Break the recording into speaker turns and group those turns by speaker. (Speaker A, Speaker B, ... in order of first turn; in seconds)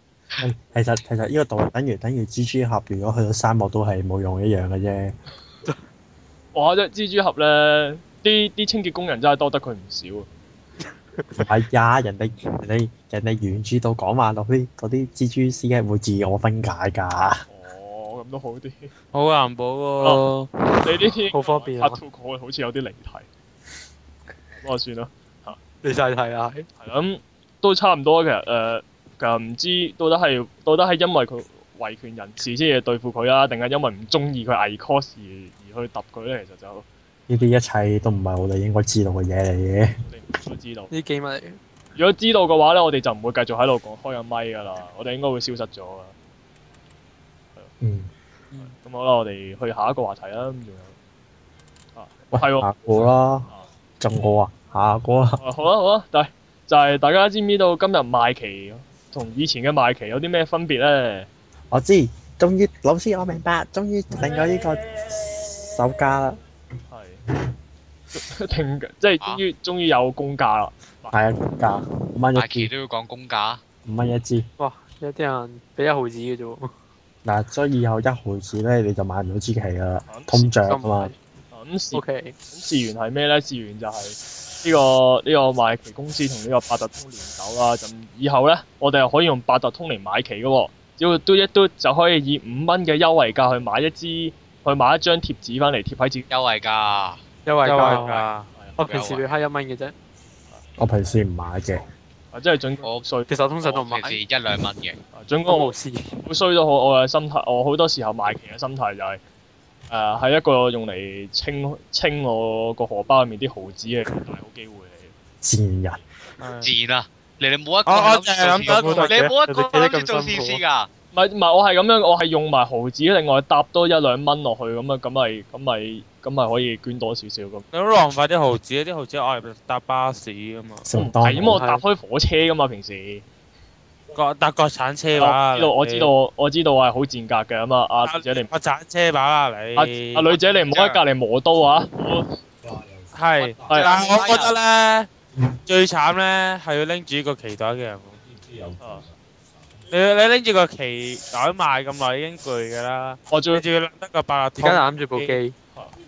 Speaker A: 0.4-5.2, 11.4-17.4, 37.3-40.0, 47.8-48.1, 52.3-53.5, 54.0-55.4, 61.7-66.4, 71.1-72.7, 73.9-74.5, 77.2-81.1, 100.8-101.8, 115.4-116.0, 130.8-131.6
Speaker B: 6.5-10.3, 17.5-18.9, 20.8-23.3, 24.6-25.6, 26.8-36.9, 40.1-40.9, 42.0-46.1, 48.6-51.0, 52.0-52.7, 55.4-61.3, 66.9-67.2, 68.1-71.2, 80.1-80.5, 81.5-96.3, 102.3-103.3, 105.1-109.2, 109.9-115.2, 121.1-127.7, 130.9-133.2, 135.2-138.5, 139.8-142.3, 148.8-149.1, 153.3-153.6
Speaker C: 19.1-20.5, 97.6-98.5, 116.4-116.7, 117.9-119.3, 127.7-130.8, 134.2-136.1, 138.1-140.3, 143.1-145.1, 145.7-148.2, 149.9-155.4
Speaker D: 21.3-22.0, 25.8-26.7, 40.9-41.6, 74.6-76.7, 80.6-81.2, 81.9-82.4, 97.5-98.2, 98.8-99.9, 103.3-104.2, 105.5-106.2, 118.7-120.6, 131.4-131.8, 154.6-155.6
Speaker E: 72.3-73.6, 96.3-97.2, 97.8-98.3, 98.8-99.3, 103.6-105.0, 116.6-120.9, 140.3-141.0, 143.7-144.5